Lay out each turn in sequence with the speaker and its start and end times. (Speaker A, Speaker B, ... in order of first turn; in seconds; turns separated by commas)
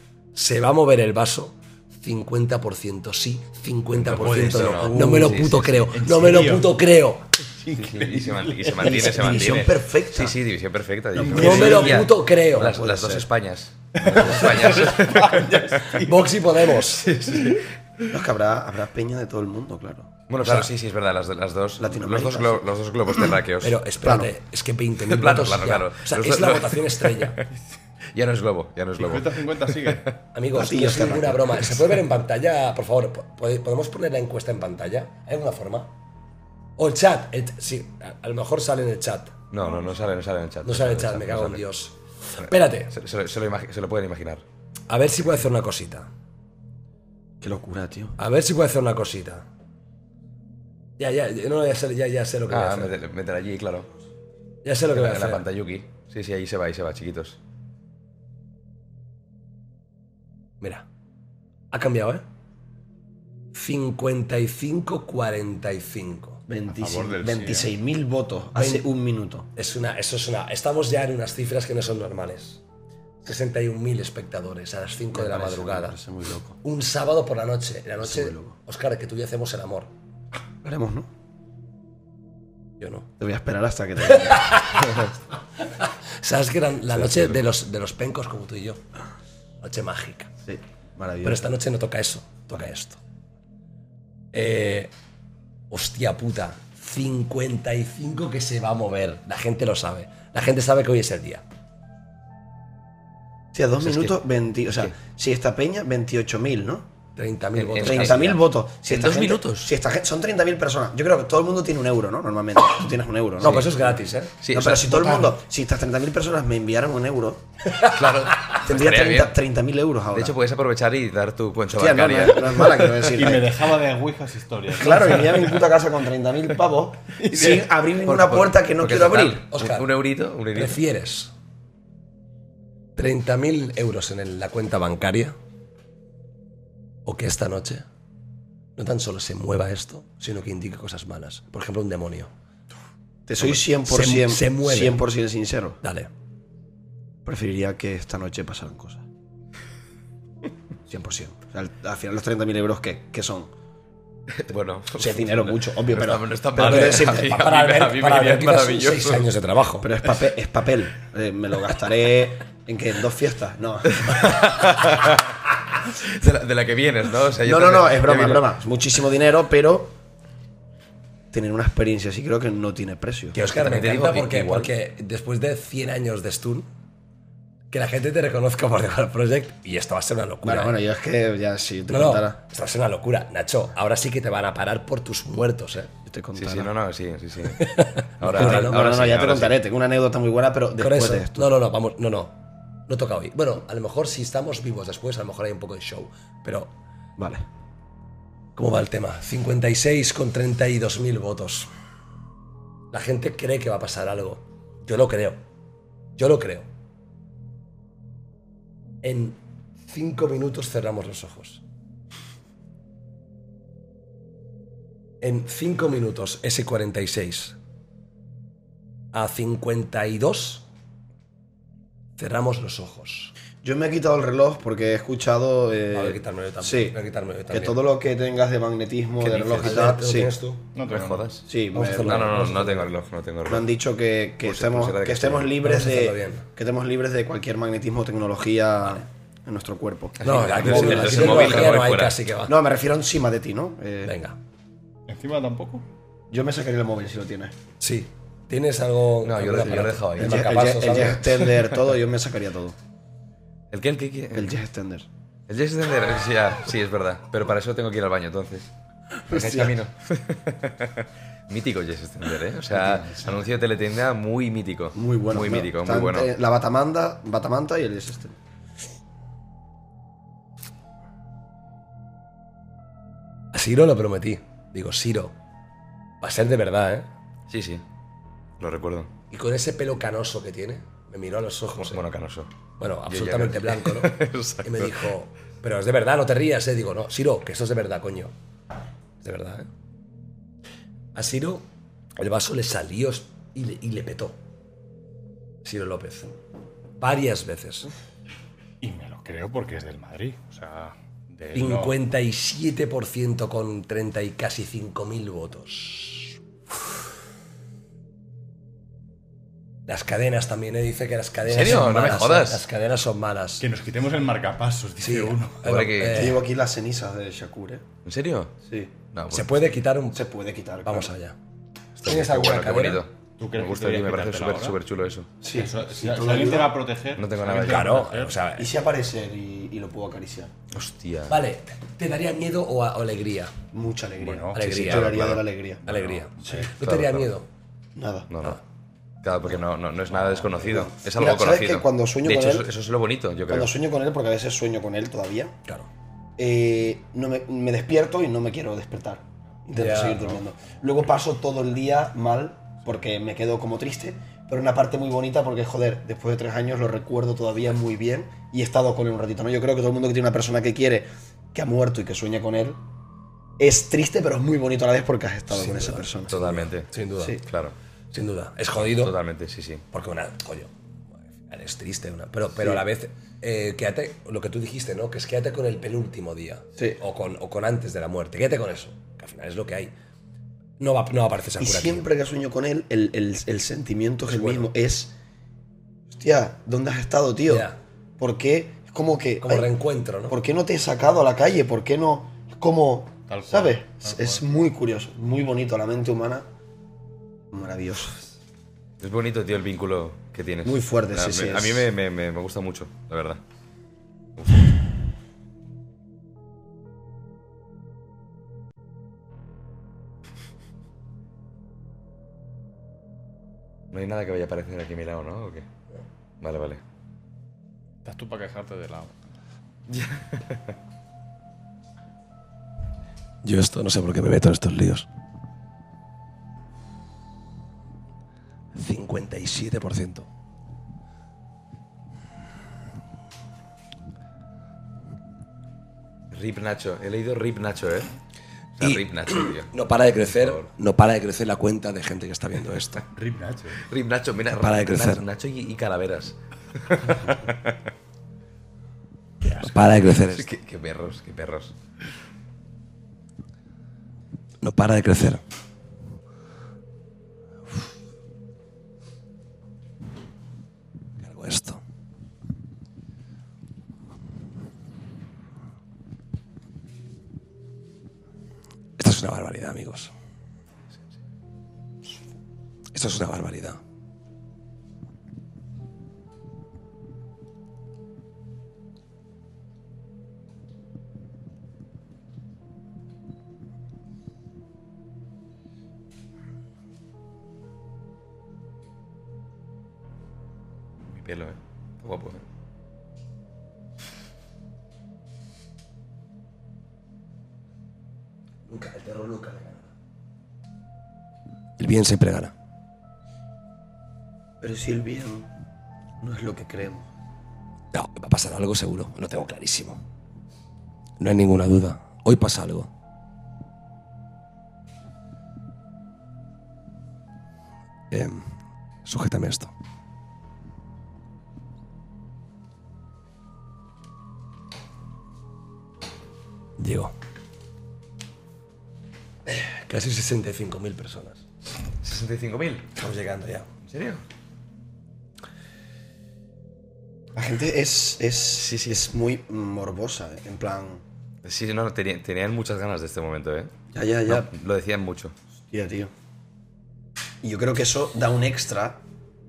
Speaker A: 0.3-7.4, Speaker B: 4.0-5.9, Speaker C: 4.1-6.7, Speaker D: 5.0-5.4, Speaker C: 7.6-9.6, Speaker B: 7.7-15.8, Speaker D: 8.8-10.4, Speaker C: 11.2-12.1, Speaker D: 11.2-11.8, Speaker A: 11.3-13.2, Speaker D: 12.6-13.3, Speaker C: 14.0-16.2, Speaker A: 15.8-17.1, Speaker C: 17.0-17.6, Speaker B: 17.1-17.6, Speaker D: 18.1-20.2, Speaker B: 20.3-23.8, Speaker D: 21.8-22.7, Speaker A: 23.6-27.4, Speaker D: 24.0-24.3, Speaker B: 25.0-27.4, Speaker B: 28.1-30.0, Speaker C: 29.0-30.1, Speaker A: 30.3-35.9, Speaker D: 30.5-31.8, Speaker A: 36.8-39.4, Speaker B: 39.5-41.6, Speaker A: 40.6-42.9, Speaker B: 42.4-44.4, Speaker A: 44.9-46.1, Speaker D: 47.4-48.2, Speaker A: 48.2-49.5, Speaker A: 51.0-53.0, Speaker B: 52.5-53.9, Speaker A: 54.6-55.4, Speaker B: 54.9-57.4, Speaker A: 61.7-62.2, Speaker A: 63.5-66.4, Speaker D: 66.5-69.5, Speaker C: 66.7-67.7, Speaker A: 68.5-68.8, Speaker A: 69.5-72.6, Speaker A: 73.2-76.0, Speaker D: 75.1-76.6, Speaker A: 76.6-79.9, Speaker D: 78.0-78.5, Speaker D: 80.6-81.1, Speaker A: 82.8-83.1, Speaker D: 83.2-84.8, Speaker A: 84.3-85.1, Speaker A: 85.7-88.8, Speaker A: 89.6-90.3, Speaker D: 90.5-91.4, Speaker A: 91.2-93.0, Speaker A: 94.3-94.9, Speaker A: 95.7-101.4, Speaker D: 103.5-106.9, Speaker B: 103.8-104.1, Speaker A: 107.2-108.4, Speaker B: 107.6-109.7, Speaker D: 107.8-114.0, Speaker A: 113.4-114.3, Speaker B: 114.4-115.2, Speaker D: 114.5-117.4, Speaker B: 117.8-119.3, Speaker D: 118.5-120.4, Speaker B: 120.1-123.1, Speaker D: 121.7-123.5, Speaker C: 123.1-125.6, Speaker D: 124.7-129.5, Speaker C: 127.2-127.7, Speaker B: 128.1-130.8, Speaker A: 129.4-129.9, Speaker A: 130.5-131.3, Speaker A: 133.0-135.3, Speaker A: 137.1-137.9, Speaker A: 138.8-142.3, Speaker D: 143.3-145.8, Speaker A: 143.4-145.0, Speaker A: 145.8-146.1, Speaker D: 147.2-149.1, Speaker D: 150.9-153.5, Speaker B: 154.4-159.3, Speaker D: 154.9-157.4, Speaker A: 156.6-159.9, Speaker D: 159.8-164.5, Speaker B: 163.9-168.5, Speaker D: 167.4-169.9, Speaker D: 171.3-173.4, Speaker A: 173.3-176.7, Speaker B: 173.5-174.7, Speaker A: 177.7-180.8, Speaker D: 180.4-182.4, Speaker A: 181.9-185.9, Speaker D: 186.1-186.7, Speaker B: 186.3-189.6, Speaker A: 187.6-188.8, Speaker D: 188.2-191.5, Speaker A: 190.8-192.3, Speaker A: 192.9-196.7, Speaker D: 197.2-197.4, Speaker A: 198.6-201.7, Speaker A: 202.9-205.4, Speaker A: 206.2-206.7, Speaker A: 209.0-211.6, Speaker A: 215.2-217.6, Speaker A: 219.1-220.7, Speaker A: 222.2-223.3, Speaker D: 223.6-227.0, Speaker A: 225.9-227.8, Speaker D: 227.5-230.3, Speaker A: 229.2-230.7, Speaker B: 229.4-229.8, Speaker C: 230.8-231.3, Speaker B: 230.8-233.7, Speaker D: 231.5-232.3, Speaker A: 231.7-232.9, Speaker D: 233.5-241.8, Speaker B: 234.4-235.6, Speaker A: 235.6-236.5, Speaker B: 240.2-242.2, Speaker A: 240.2-242.6, Speaker D: 242.5-244.2, Speaker A: 244.1-244.4, Speaker C: 245.1-245.8, Speaker D: 246.3-247.5, Speaker A: 247.8-251.3, Speaker B: 249.2-250.4, Speaker D: 249.6-252.8, Speaker B: 253.7-254.6, Speaker D: 254.3-255.1, Speaker B: 255.5-258.7, Speaker D: 259.3-259.8, Speaker B: 259.3-266.3, Speaker D: 264.9-268.4, Speaker A: 273.5-275.3, Speaker A: 276.2-277.1, Speaker B: 277.5-277.8, Speaker B: 278.6-279.1, Speaker A: 279.3-282.0, Speaker B: 281.8-282.5, Speaker A: 282.8-288.3, Speaker B: 283.1-285.0, Speaker A: 289.2-289.7, Speaker A: 291.1-291.6, Speaker A: 292.2-294.4, Speaker A: 295.6-296.4, Speaker A: 297.0-297.9, Speaker C: 298.8-302.0, Speaker A: 301.5-306.4, Speaker A: 309.9-313.6, Speaker B: 311.5-312.6, Speaker C: 313.6-315.6, Speaker A: 315.0-316.4, Speaker B: 315.6-316.3, Speaker D: 316.1-317.9, Speaker B: 318.1-318.5, Speaker D: 318.7-318.9, Speaker B: 319.1-319.5, Speaker A: 319.3-320.2, Speaker D: 320.1-321.1, Speaker A: 320.8-321.4, Speaker B: 322.0-325.3, Speaker A: 322.0-323.0, Speaker C: 323.4-324.8, Speaker D: 325.4-326.8, Speaker C: 325.5-328.4, Speaker B: 327.2-328.1, Speaker A: 327.6-328.7, Speaker D: 328.6-330.5, Speaker B: 330.7-331.4, Speaker A: 331.3-333.6, Speaker D: 333.7-336.7, Speaker C: 334.2-335.3, Speaker A: 334.5-337.5, Speaker B: 335.0-335.3, Speaker C: 335.9-336.6, Speaker B: 336.8-337.3, Speaker D: 338.0-338.3, Speaker B: 338.3-338.6, Speaker B: 339.2-343.7, Speaker D: 340.6-342.7, Speaker D: 343.5-345.6, Speaker D: 346.4-362.8, Speaker A: 349.7-350.4, Speaker D: 363.6-367.4, Speaker A: 365.5-366.1, Speaker B: 366.3-366.9, Speaker A: 366.9-367.4, Speaker B: 367.4-367.8, Speaker A: 368.1-369.1, Speaker B: 368.9-369.9, Speaker A: 369.9-370.7, Speaker A: 371.4-379.9, Speaker A: 380.8-382.1, Speaker D: 381.6-385.1, Speaker A: 384.3-384.7, Speaker D: 386.1-387.7, Speaker A: 387.5-387.8, Speaker D: 388.2-389.7, Speaker A: 389.4-390.4, Speaker D: 390.3-396.4, Speaker C: 393.3-394.4, Speaker D: 397.5-398.4, Speaker B: 399.0-403.4, Speaker D: 400.6-401.9, Speaker B: 404.4-404.7, Speaker B: 413.9-415.7, Speaker B: 416.4-416.8, Speaker C: 418.0-419.1, Speaker B: 419.9-420.7, Speaker A: 423.4-425.1, Speaker A: 428.8-430.3, Speaker B: 436.3-438.1, Speaker B: 438.8-440.6, Speaker A: 438.8-443.1, Speaker C: 443.1-443.8, Speaker B: 443.8-447.8, Speaker A: 444.5-445.2, Speaker A: 449.6-450.5, Speaker B: 450.3-451.8, Speaker A: 454.6-455.4, Speaker A: 461.2-461.8, Speaker A: 469.0-470.1, Speaker A: 472.9-473.8, Speaker B: 491.0-492.4, Speaker A: 498.7-499.9, Speaker A: 501.8-502.5, Speaker D: 504.6-505.5, Speaker D: 506.2-507.1, Speaker A: 507.9-510.0, Speaker A: 511.2-512.9, Speaker A: 518.1-518.5, Speaker A: 519.0-519.7, Speaker A: 526.8-527.1, Speaker A: 529.5-531.4, Speaker B: 532.0-532.9, Speaker A: 533.0-533.7, Speaker B: 533.9-534.2, Speaker D: 537.4-541.0, Speaker B: 538.5-539.1, Speaker B: 541.4-543.7, Speaker D: 543.9-544.5, Speaker B: 544.3-545.3, Speaker D: 545.7-546.1, Speaker D: 547.4-549.0